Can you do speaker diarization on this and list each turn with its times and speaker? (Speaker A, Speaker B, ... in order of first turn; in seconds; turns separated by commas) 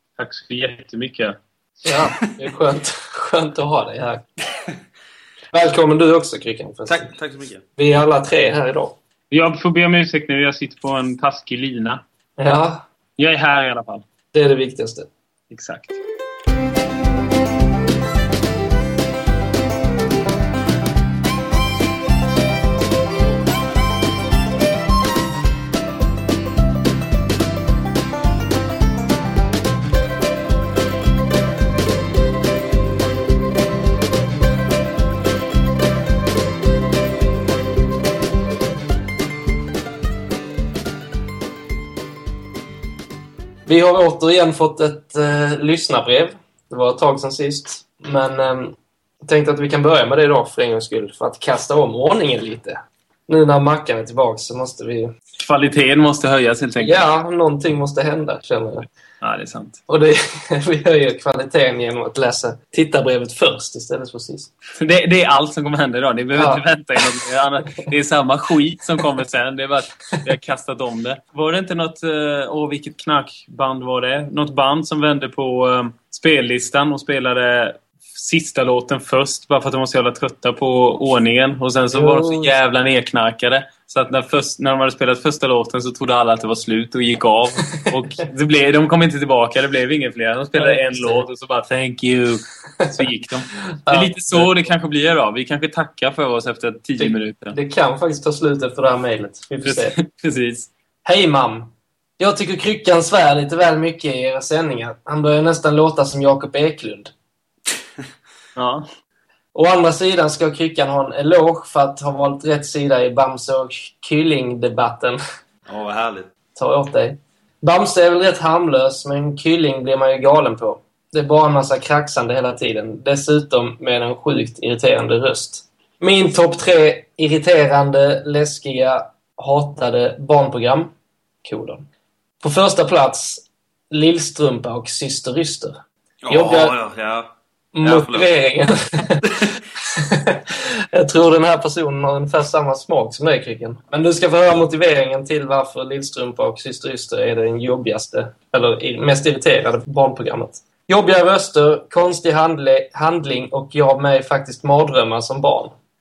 Speaker A: 0.2-1.4, Speaker B: 1.8-4.2, Speaker B: 5.5-7.1, Speaker C: 6.9-7.6, Speaker B: 7.8-9.0, Speaker A: 9.3-12.0, Speaker B: 12.4-12.8, Speaker A: 13.2-14.0, Speaker B: 14.3-15.1, Speaker A: 15.5-16.0, Speaker B: 43.7-55.1, Speaker A: 55.4-57.0, Speaker B: 56.8-58.9, Speaker A: 59.2-59.8, Speaker B: 59.9-64.5, Speaker A: 64.8-97.6, Speaker B: 66.3-66.6, Speaker B: 81.9-82.5, Speaker B: 90.6-91.2, Speaker B: 92.8-93.0, Speaker B: 93.8-94.6, Speaker B: 97.0-100.0, Speaker A: 99.7-100.7, Speaker B: 101.0-107.1, Speaker A: 108.6-108.8, Speaker B: 109.5-115.2, Speaker C: 115.7-116.3, Speaker B: 116.6-130.9, Speaker B: 131.4-131.9, Speaker B: 132.4-136.8, Speaker C: 136.2-138.3, Speaker B: 137.7-139.3, Speaker B: 139.9-155.7